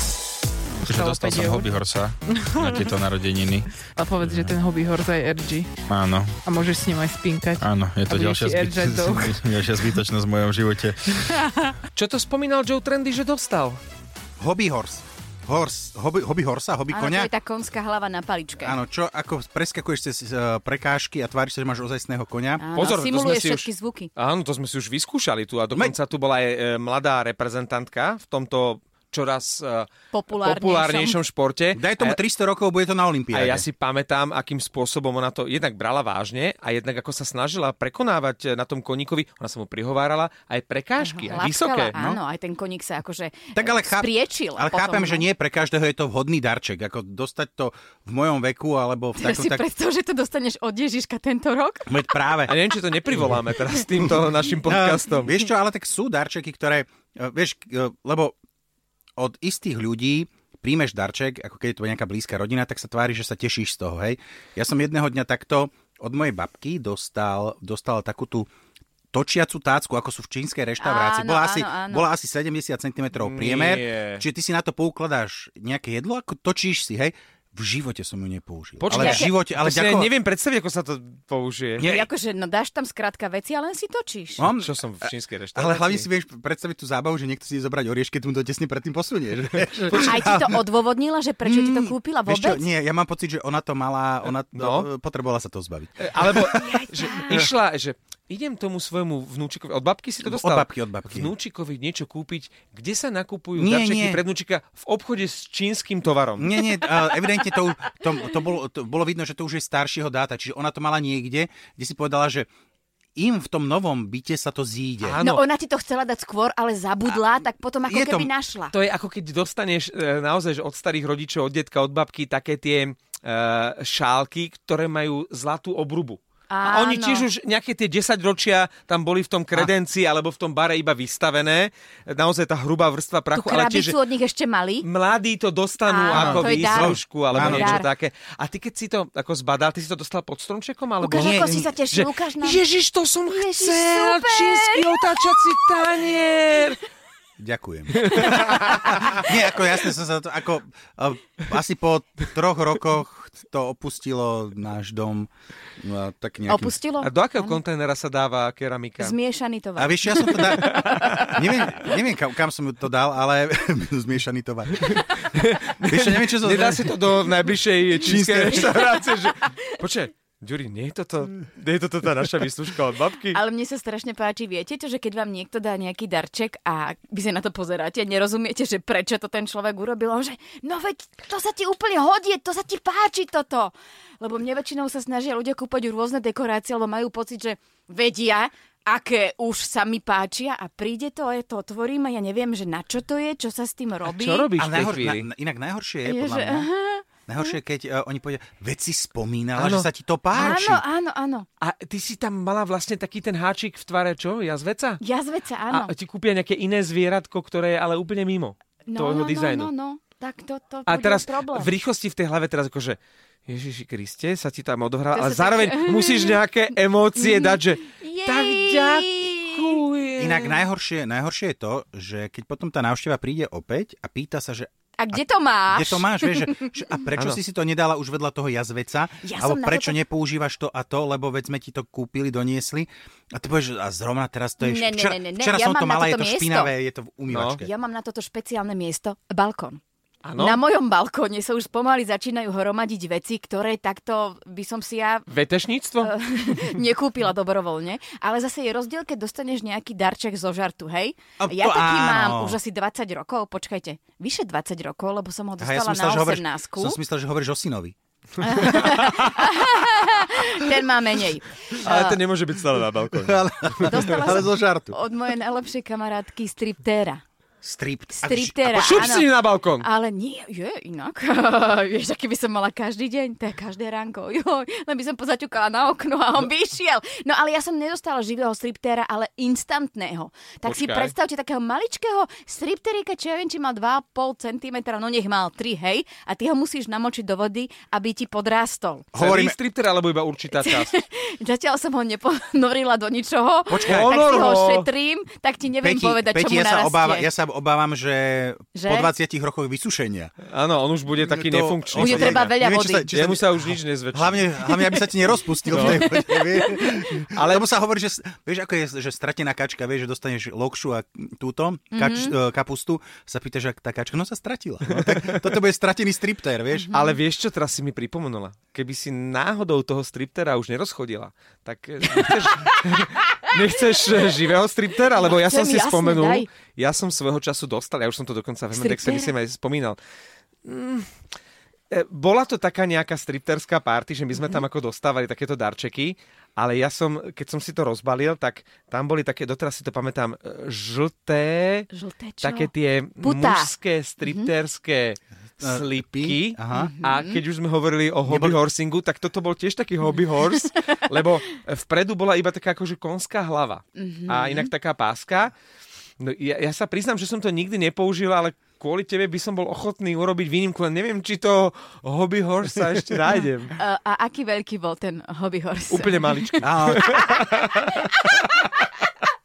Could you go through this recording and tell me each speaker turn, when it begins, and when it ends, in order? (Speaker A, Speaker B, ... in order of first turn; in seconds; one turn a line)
Speaker A: 0.8-4.6
Speaker B: 0.8-1.8
Speaker B: 2.3-3.0
Speaker B: 3.8-5.7
Speaker A: 5.9-6.4
Speaker B: 6.5-10.0
Speaker A: 7.6-11.2
Speaker C: 11.9-13.8
Speaker D: 14.4-17.3
Speaker E: 16.9-18.8
Speaker D: 18.6-22.7
Speaker E: 22.6-24.1
Speaker C: 22.8-32.2
Speaker E: 30.1-31.2
Speaker D: 31.7-33.6
Speaker C: 33.3-42.2
Speaker E: 41.0-45.3
Speaker D: 43.5-49.6
Speaker E: 49.2-52.2
Speaker D: 51.9-52.6
Speaker C: 52.5-55.4
Speaker D: 53.1-53.4
Speaker D: 54.0-58.3
Speaker D: 59.2-68.5
Speaker D: 69.1-80.1
Speaker E: 70.8-72.1
Speaker C: 73.2-74.3
Speaker C: 78.8-81.9
Speaker E: 78.9-79.3
Speaker D: 81.8-82.1
Speaker E: 81.8-84.5
Speaker D: 84.4-90.6
Speaker C: 84.5-86.1
Speaker C: 89.9-90.3
Speaker E: 90.0-92.7
Speaker D: 91.5-97.5
Speaker C: 94.5-94.9
Speaker C: 96.0-106.5
Speaker E: 96.4-97.5
Speaker D: 100.2-101.3
Speaker D: 103.5-104.2
Speaker D: 106.4-112.5
Speaker E: 106.6-107.5
Speaker D: 113.2-115.2
Speaker C: 115.0-115.4
Speaker E: 115.2-118.7
Speaker D: 117.9-118.3
Speaker C: 118.7-134.0
Speaker E: 126.5-127.3
Speaker E: 133.3-134.8
Speaker C: 134.8-146.8
Speaker E: 135.9-137.9
Speaker D: 136.1-137.9
Speaker E: 141.0-142.6
Speaker D: 141.1-141.7
Speaker E: 143.3-145.0
Speaker D: 147.4-156.8
Speaker C: 148.0-149.3
Speaker E: 156.5-157.6
Speaker C: 157.0-159.2
Speaker E: 159.0-161.3
Speaker D: 159.8-165.1
Speaker C: 160.3-161.6
Speaker C: 164.8-173.4
Speaker D: 165.8-166.9
Speaker D: 168.0-168.7
Speaker E: 168.6-169.6
Speaker E: 173.3-194.5
Speaker C: 194.1-195.3
Speaker D: 194.6-196.7
Speaker E: 196.1-197.6
Speaker D: 197.3-200.8
Speaker C: 199.6-200.6
Speaker E: 200.3-201.5
Speaker C: 201.6-205.0
Speaker E: 205.0-205.9
Speaker C: 205.7-209.7
Speaker E: 208.9-211.7
Speaker C: 210.9-220.6
Speaker E: 215.1-216.4
Speaker E: 217.2-219.8
Speaker D: 220.2-237.7
Speaker E: 225.0-226.8
Speaker E: 229.2-230.0
Speaker E: 234.6-236.7
Speaker C: 237.3-237.6
Speaker E: 237.6-239.8
Speaker C: 240.2-240.6
Speaker E: 240.4-245.3
Speaker C: 245.3-246.8
Speaker E: 246.0-257.0
Speaker D: 251.4-252.6
Speaker D: 255.6-257.9
Speaker E: 258.4-262.2
Speaker C: 261.8-264.2
Speaker D: 263.1-265.0
Speaker E: 263.8-267.2
Speaker D: 267.6-269.2
Speaker E: 268.2-289.1
Speaker C: 268.7-269.9
Speaker C: 280.6-281.1
Speaker D: 289.1-289.6
Speaker C: 289.1-290.9
Speaker E: 290.5-297.3
Speaker D: 293.7-294.4
Speaker C: 293.8-294.9
Speaker D: 295.8-300.3
Speaker E: 298.7-299.1
Speaker C: 300.5-304.6
Speaker D: 301.2-316.9
Speaker E: 302.0-303.1
Speaker C: 305.7-306.2
Speaker E: 305.7-306.9
Speaker C: 307.2-307.7
Speaker E: 311.9-312.4
Speaker C: 314.9-315.6
Speaker E: 316.8-317.2
Speaker C: 316.9-330.0
Speaker E: 325.2-326.5
Speaker E: 328.7-329.3
Speaker C: 330.6-331.1
Speaker C: 331.9-341.9
Speaker E: 341.9-343.7
Speaker C: 342.4-355.5
Speaker E: 344.2-344.5
Speaker D: 345.6-346.9
Speaker E: 346.7-347.4
Speaker D: 348.3-348.6
Speaker E: 354.0-354.7
Speaker C: 356.2-363.8
Speaker E: 363.8-368.6
Speaker C: 365.9-369.1
Speaker D: 366.6-367.3